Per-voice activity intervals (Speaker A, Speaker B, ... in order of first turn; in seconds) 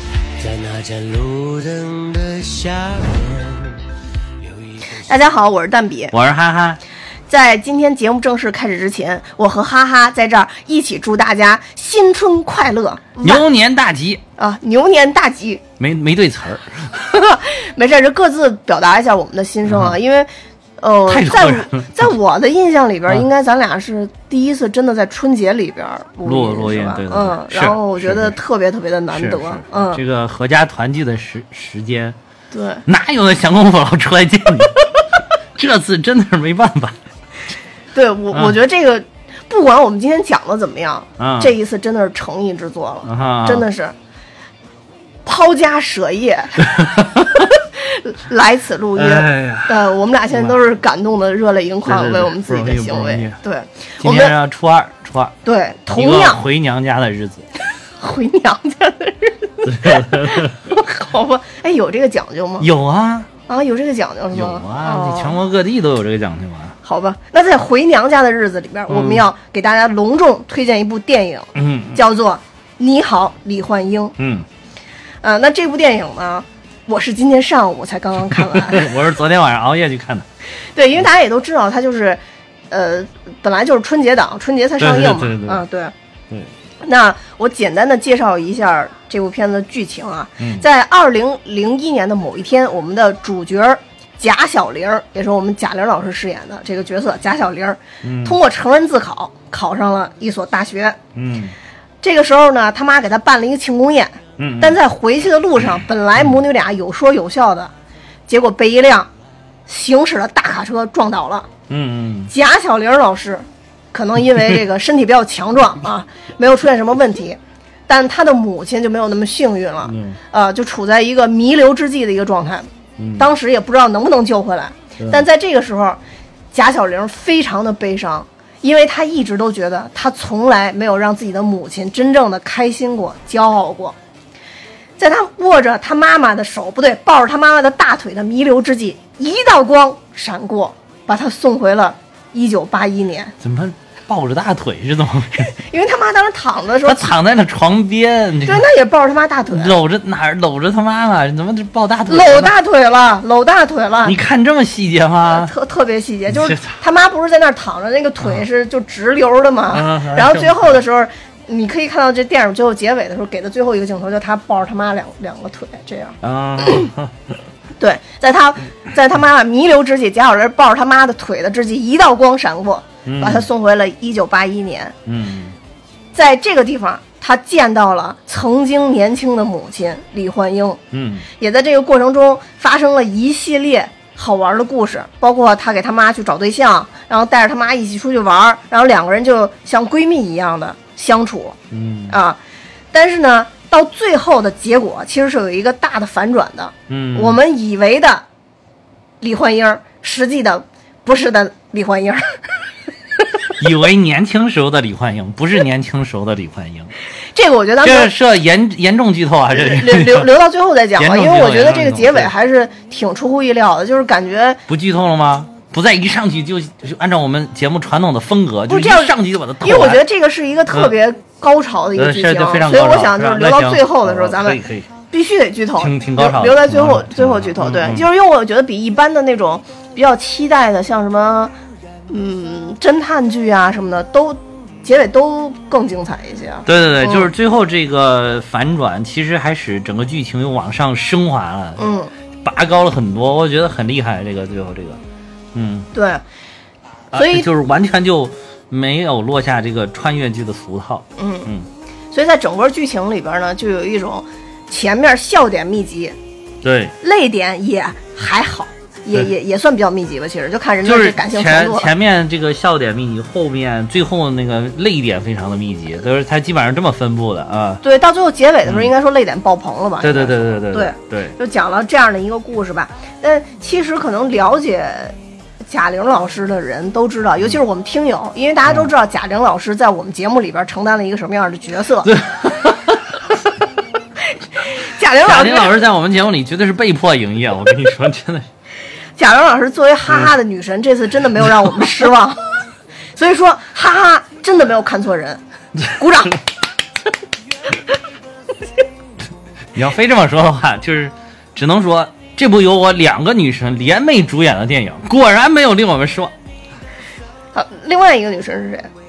Speaker A: 0.4-3.8, 4.4-5.1
Speaker B: 5.1-6.1, 7.3-13.5, 14.4-15.6, 17.1-30.0, 32.5-32.8, 37.9-44.0, 45.2-54.3, 55.5-56.4, 58.0-62.7, 63.5-65.4, 66.8-74.2, 75.2-78.9, 80.8-82.2, 82.7-85.9, 86.8-101.0, 102.0-107.7, 108.3-109.1, 109.7-111.5, 112.3-126.0, 126.5-133.9, 135.0-143.3, 145.4-147.1, 148.4-149.8, 152.1-154.2, 155.3-166.9, 167.8-174.9, 176.1-180.8, 181.4-191.6, 192.1-192.4, 192.9-198.2, 199.2-202.3, 207.3-208.1, 209.5-214.6, 218.7-231.5, 232.1-237.3, 241.8-242.1, 245.9-246.2, 247.1-247.5, 251.2-251.5, 252.1-256.2, 257.0-261.9, 267.8-282.1, 284.6-285.8, 289.2-292.4, 293.2-296.4, 307.5-308.9
Speaker C: 6.1-6.8, 13.2-14.2, 15.8-17.1, 19.7-19.9, 21.1-21.9, 26.2-28.4, 29.1-32.2, 32.9-34.8, 35.5-37.0, 41.2-41.5, 43.0-43.7, 46.6-47.5, 49.0-50.6, 51.9-53.4, 54.0-55.4, 55.9-57.4, 59.7-60.5, 62.6-63.3, 64.3-66.8, 68.9-69.2, 71.5-72.0, 74.2-74.5, 78.3-80.3, 84.8-85.6, 90.4-90.7, 98.0-98.4, 101.2-101.5, 104.4-104.8, 111.7-112.3, 119.9-120.2, 123.0-123.3, 125.0-125.2, 143.4-145.5, 146.8-148.7, 149.5-152.5, 154.0-155.5, 156.3-156.8, 159.7-160.8, 166.2-167.1, 173.1-173.5, 175.1-175.6, 180.9-181.3, 191.7-192.2, 196.9-197.4, 203.6-206.9, 207.8-210.3, 211.0-212.3, 214.7-220.0, 222.0-224.9, 225.8-228.1, 236.7-241.9, 242.4-245.0, 245.5-245.9, 247.1-251.7, 256.6-256.9, 260.8-267.8, 268.7-268.9, 270.0-271.4, 282.0-283.0, 285.2-288.5, 299.7-306.3